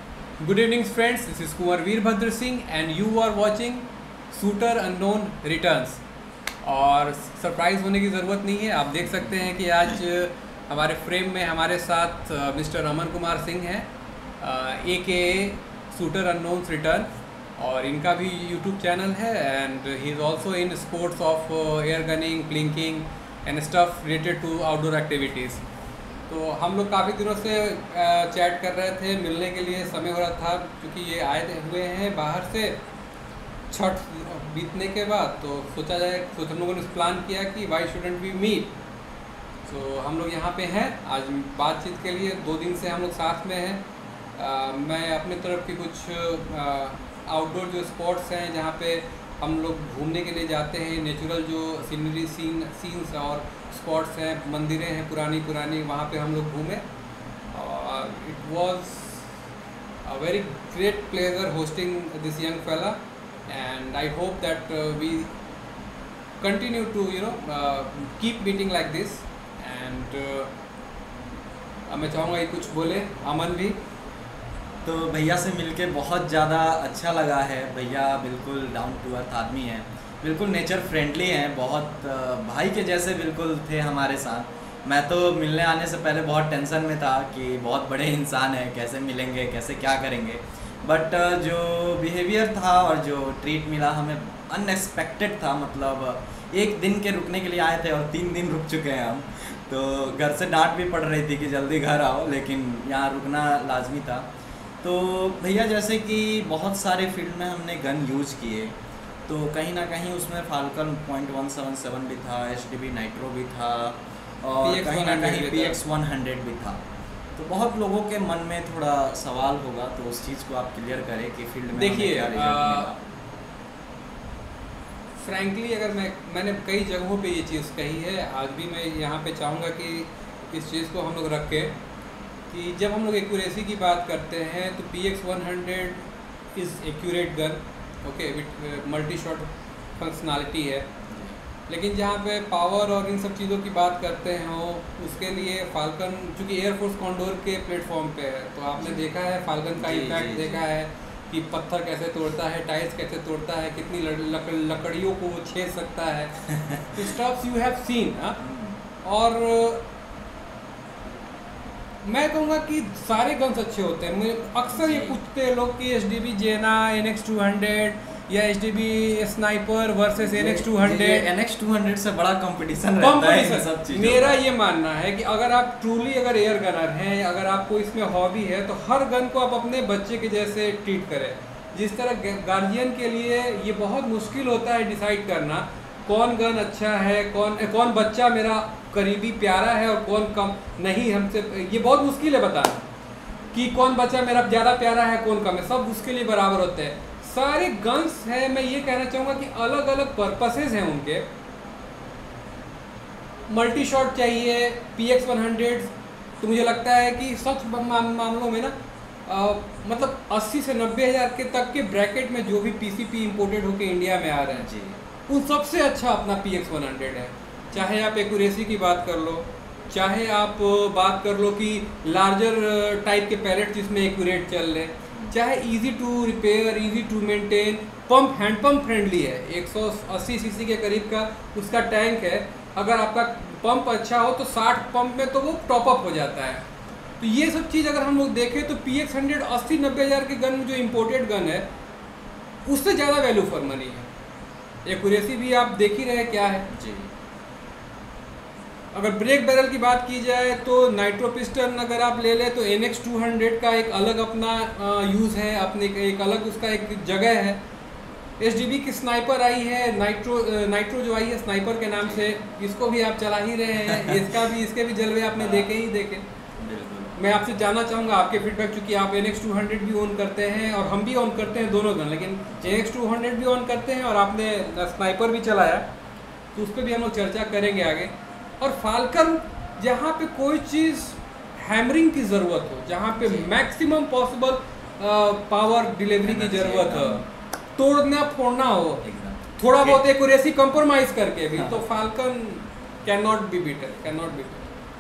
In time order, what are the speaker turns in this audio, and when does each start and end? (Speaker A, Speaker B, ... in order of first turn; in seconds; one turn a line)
Speaker A: 0.4-6.0
Speaker A: 6.6-13.9
Speaker A: 14.4-25.6
Speaker A: 26.3-32.8
Speaker A: 33.7-38.7
Speaker A: 39.6-43.8
Speaker A: 44.4-56.8
Speaker A: 57.5-59.3
Speaker A: 60.0-65.3
Speaker A: 66.4-70.5
Speaker A: 71.9-73.8
Speaker B: 74.8-104.2
Speaker B: 104.8-108.7
Speaker B: 109.3-116.8
Speaker A: 114.6-115.8
Speaker B: 117.3-123.0
Speaker A: 121.7-122.9
Speaker A: 125.2-131.7
Speaker A: 132.5-139.5
Speaker A: 140.0-140.9
Speaker B: 141.1-141.4
Speaker A: 141.7-158.4
Speaker B: 148.8-149.1
Speaker B: 149.8-150.6
Speaker B: 156.5-157.1
Speaker B: 158.4-158.8
Speaker A: 159.0-159.8
Speaker A: 162.0-171.3
Speaker B: 164.7-165.2
Speaker B: 170.1-174.4
Speaker A: 173.0-192.9
Speaker A: 193.5-201.2
Speaker A: 203.5-208.7
Speaker A: 209.3-214.7
Speaker B: 214.5-215.0
Speaker A: 215.3-236.7
Speaker A: 237.2-241.7
Speaker A: 242.6-244.1
Speaker A: 244.8-246.7
Speaker B: 246.7-247.1
Speaker A: 248.9-257.6
Speaker A: 258.4-266.2
Speaker B: 262.0-262.3
Speaker B: 263.9-264.4
Speaker B: 265.3-265.7
Speaker B: 266.6-267.3
Speaker A: 267.1-275.9
Speaker B: 272.5-272.8
Speaker A: 276.5-287.2
Speaker B: 283.2-283.5
Speaker B: 286.2-287.2
Speaker A: 287.8-289.0
Speaker B: 289.0-290.0
Speaker A: 289.6-294.7
Speaker B: 291.5-291.8